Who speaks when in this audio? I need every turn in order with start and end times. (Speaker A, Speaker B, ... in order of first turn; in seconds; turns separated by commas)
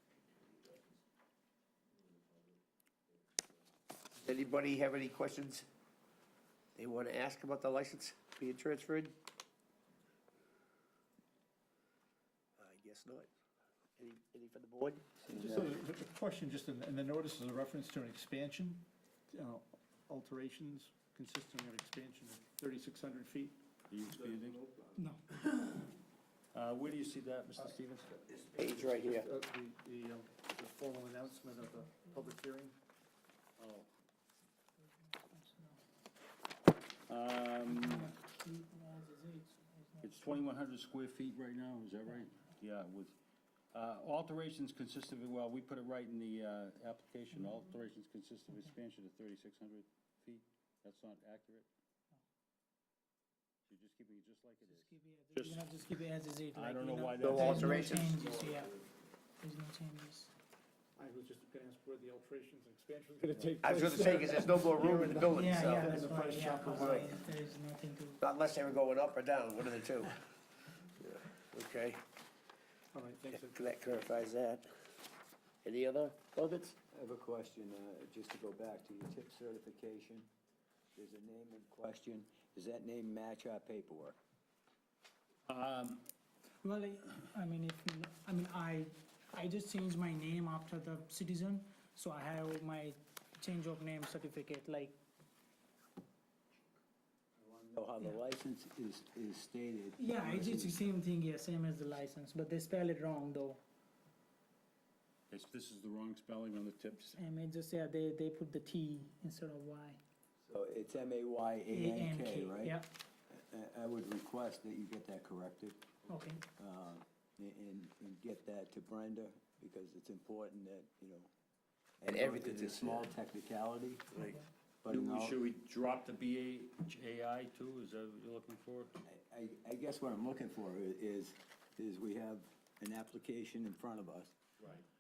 Speaker A: 4.2-5.7, Speaker A: 6.8-9.1, Speaker A: 12.6-13.3, Speaker A: 14.0-15.6, Speaker B: 15.3-23.6, Speaker C: 23.9-24.6, Speaker D: 24.9-25.9, Speaker C: 26.5-27.8, Speaker B: 27.6-32.8, Speaker A: 28.5-29.3, Speaker D: 31.9-32.3, Speaker C: 33.6-33.9, Speaker D: 34.8-35.8, Speaker C: 37.1-38.1, Speaker D: 37.7-40.5, Speaker C: 40.0-43.2, Speaker D: 42.1-42.3, Speaker C: 43.7-51.7, Speaker C: 53.7-55.7, Speaker D: 54.7-58.8, Speaker C: 56.5-58.1, Speaker A: 57.2-58.5, Speaker D: 59.4-60.3, Speaker B: 61.0-67.2, Speaker A: 63.6-66.0, Speaker D: 65.3-68.2, Speaker A: 66.7-67.1, Speaker A: 68.2-70.2, Speaker A: 71.0-72.0, Speaker B: 72.9-73.6, Speaker A: 73.4-74.7, Speaker A: 75.6-76.8, Speaker E: 76.9-80.3, Speaker E: 80.9-84.2, Speaker C: 85.5-86.0, Speaker D: 86.6-95.0, Speaker E: 97.4-100.9, Speaker D: 100.0-103.6, Speaker C: 105.3-107.2, Speaker D: 107.1-110.0, Speaker E: 110.5-112.8, Speaker D: 111.7-112.9, Speaker E: 113.3-115.9, Speaker D: 116.1-116.4, Speaker E: 116.6-121.3, Speaker E: 122.0-124.2, Speaker A: 122.0-123.1, Speaker D: 124.2-124.5, Speaker E: 124.8-125.4, Speaker C: 124.9-128.9, Speaker E: 129.1-134.4